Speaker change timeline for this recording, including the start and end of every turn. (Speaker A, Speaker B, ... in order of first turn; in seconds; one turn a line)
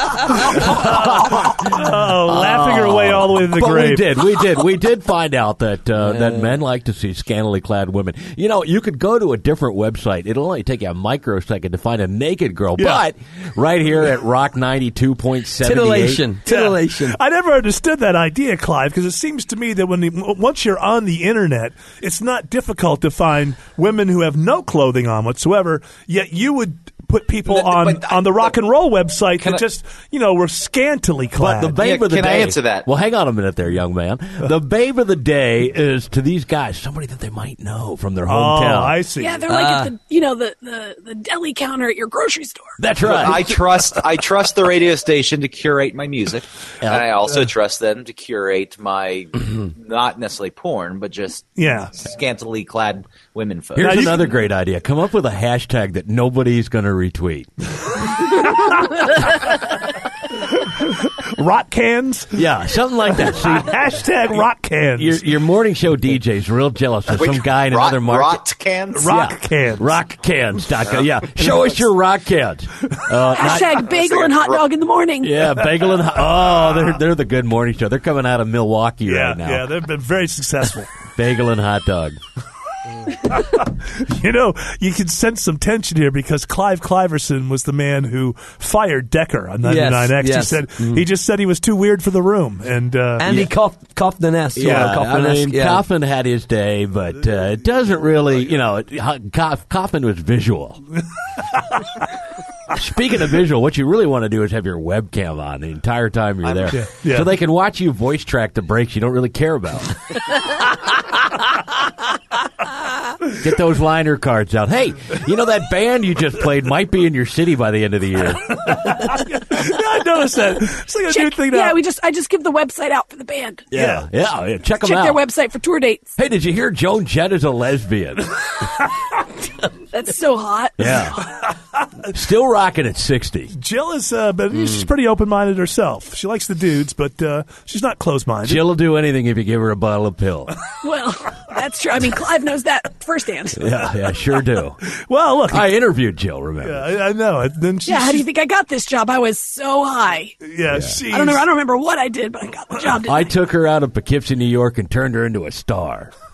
Speaker A: 0.3-16.3
Speaker B: 0.4-4.1
Speaker C: 6.0-6.6
Speaker B: 12.8-13.0
Speaker C: 15.6-17.2
Speaker B: 16.5-31.8
Speaker D: 27.5-28.5
Speaker A: 31.4-39.0
Speaker D: 31.8-32.9
Speaker B: 38.3-39.4
Speaker E: 39.2-42.8
Speaker C: 39.5-39.9
Speaker A: 42.8-43.6
Speaker D: 43.0-54.1
Speaker A: 46.8-47.1
Speaker B: 51.6-51.9
Speaker A: 53.8-57.7
Speaker B: 53.8-54.3
Speaker B: 58.4-59.0
Speaker B: 60.4-62.5
Speaker A: 62.3-63.8
Speaker B: 63.1-65.2
Speaker A: 65.0-68.4
Speaker D: 67.1-69.1
Speaker B: 68.9-70.0
Speaker A: 69.0-73.9
Speaker C: 71.4-71.8
Speaker E: 73.3-75.7
Speaker D: 73.7-74.7
Speaker A: 75.2-79.8
Speaker B: 79.0-80.9
Speaker A: 81.2-82.2
Speaker B: 83.2-93.3
Speaker C: 89.6-91.0
Speaker C: 93.2-95.8
Speaker A: 93.2-93.5
Speaker A: 94.5-100.8
Speaker A: 102.7-110.0
Speaker D: 106.5-106.7
Speaker B: 106.7-107.3
Speaker A: 113.4-118.8
Speaker B: 118.5-121.8
Speaker E: 121.1-123.7
Speaker A: 123.7-125.2
Speaker B: 123.7-124.1
Speaker E: 124.8-126.1
Speaker A: 126.2-128.4
Speaker E: 129.9-131.3
Speaker A: 130.8-131.2
Speaker A: 132.1-133.5
Speaker B: 133.5-138.6
Speaker A: 138.4-140.6
Speaker E: 140.7-143.7
Speaker A: 143.6-144.8
Speaker B: 144.8-145.7
Speaker A: 145.5-146.9
Speaker B: 146.6-148.2
Speaker E: 147.9-150.4
Speaker B: 150.4-151.5
Speaker A: 150.7-151.0
Speaker E: 151.1-153.4
Speaker A: 153.0-156.1